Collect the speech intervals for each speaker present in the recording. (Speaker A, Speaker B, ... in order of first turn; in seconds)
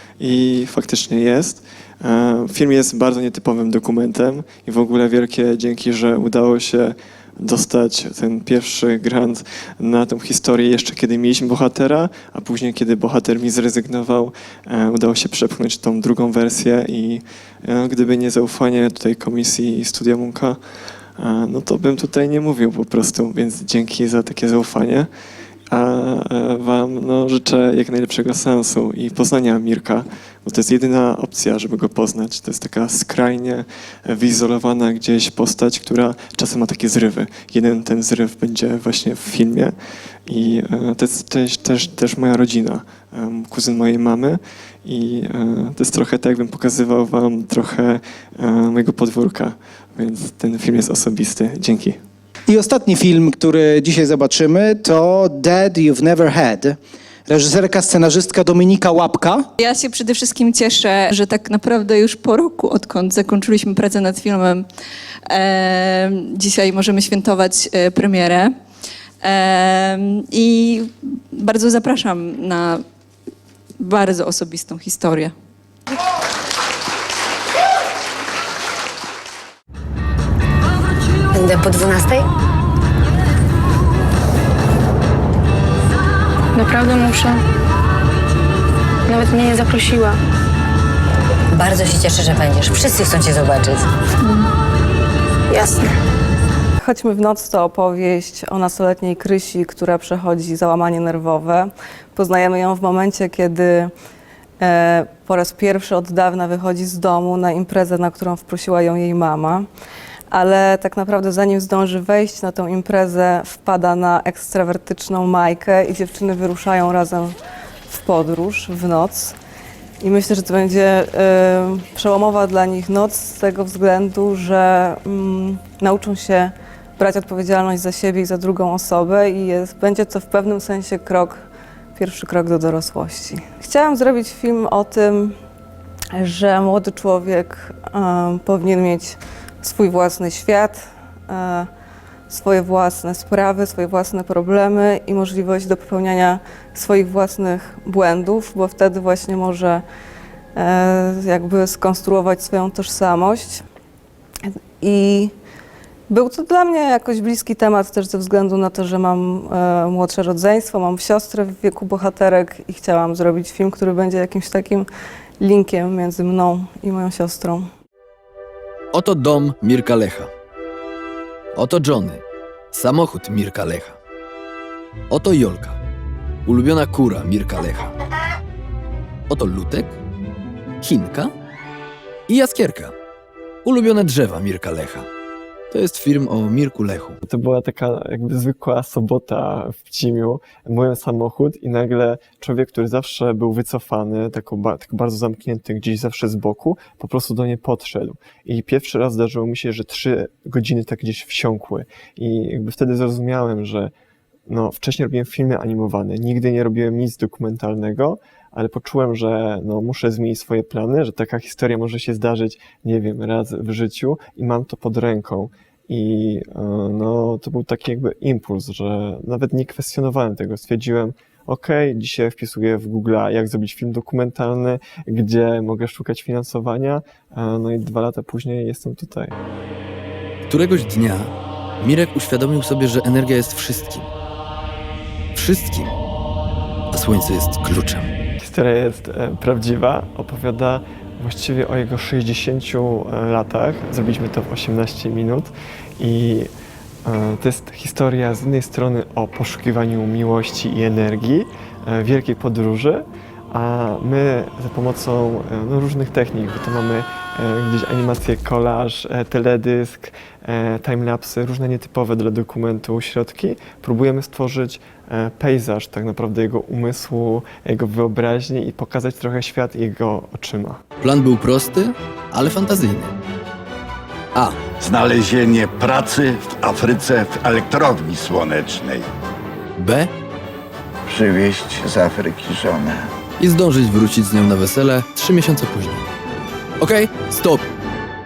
Speaker A: 0.2-20.6, 21.2-25.1, 25.7-39.7, 40.3-52.0, 187.2-203.9, 204.5-229.3, 238.4-246.5, 247.1-270.8
Speaker B: 52.5-59.5
Speaker C: 59.6-64.6, 65.3-68.5, 69.2-72.8, 73.8-75.3
Speaker D: 81.3-82.3, 91.5-93.9
Speaker E: 86.6-87.4, 89.1-90.2, 95.5-95.9
Speaker F: 96.8-103.9, 104.6-109.7, 110.3-119.4, 120.0-131.4, 132.0-135.4, 136.1-141.7, 142.3-149.8, 150.6-153.6, 154.4-155.3, 156.1-167.7
Speaker G: 168.9-170.3, 171.6-174.0, 175.1-175.8, 176.5-177.9, 179.3-179.9, 180.8-181.3, 182.3-182.9, 183.7-185.1, 185.7-187.2, 230.5-234.1, 235.3-235.9, 236.9-238.1, 271.0-273.1, 274.4-274.7, 279.8-280.1, 283.4-286.1, 286.8-287.6
Speaker H: 274.8-279.1, 281.1-283.1